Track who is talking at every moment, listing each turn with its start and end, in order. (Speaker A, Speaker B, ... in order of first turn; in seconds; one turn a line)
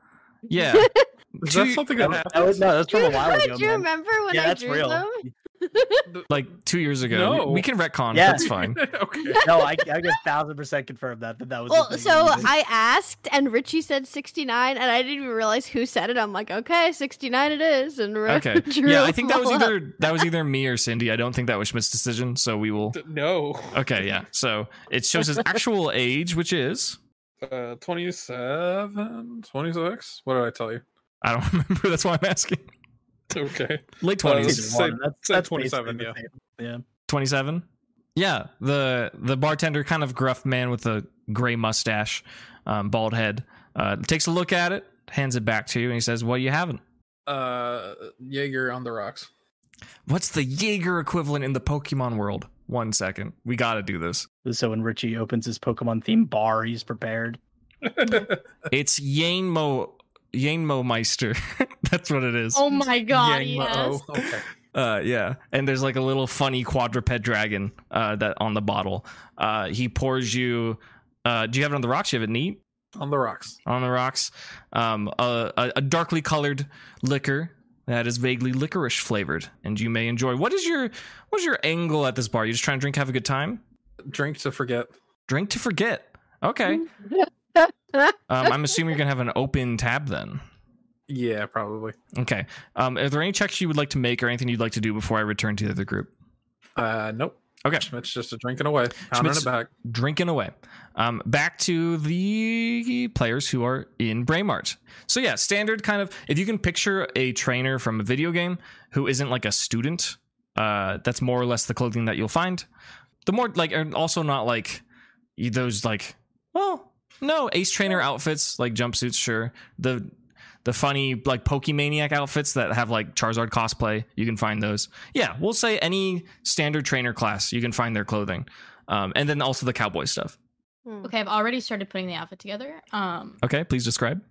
Speaker A: 0.5-2.3
Speaker B: 0.7-1.1
Speaker C: 1.4-2.7
Speaker D: 2.0-5.3
Speaker B: 2.9-6.1
Speaker A: 6.3-8.8
Speaker C: 7.1-7.7
Speaker D: 8.1-8.5
Speaker C: 8.4-9.5
Speaker B: 9.3-10.1
Speaker D: 9.4-12.5
Speaker B: 11.7-20.3
Speaker A: 18.3-23.0
Speaker C: 22.9-23.9
Speaker A: 23.7-27.0
Speaker C: 27.4-30.8
Speaker A: 31.2-32.6
Speaker C: 33.3-36.1
Speaker A: 34.0-34.8
Speaker D: 34.3-36.8
Speaker A: 37.1-46.8
Speaker C: 47.3-49.3
Speaker A: 50.1-54.3
Speaker D: 54.4-57.4
Speaker C: 57.9-58.4
Speaker A: 58.7-62.6
Speaker E: 62.5-64.0
Speaker C: 63.1-64.4
Speaker A: 64.7-72.6
Speaker C: 72.9-73.6
Speaker A: 73.7-83.6
Speaker C: 84.0-84.9
Speaker A: 85.3-86.8
Speaker B: 86.7-88.2
Speaker A: 88.3-90.4
Speaker C: 91.1-92.0
Speaker A: 92.1-96.1
Speaker C: 96.8-99.7
Speaker A: 99.1-112.7
Speaker A: 113.2-114.8
Speaker A: 115.4-120.1
Speaker A: 120.6-130.3
Speaker B: 130.8-131.1
Speaker E: 131.0-133.4
Speaker A: 133.4-134.2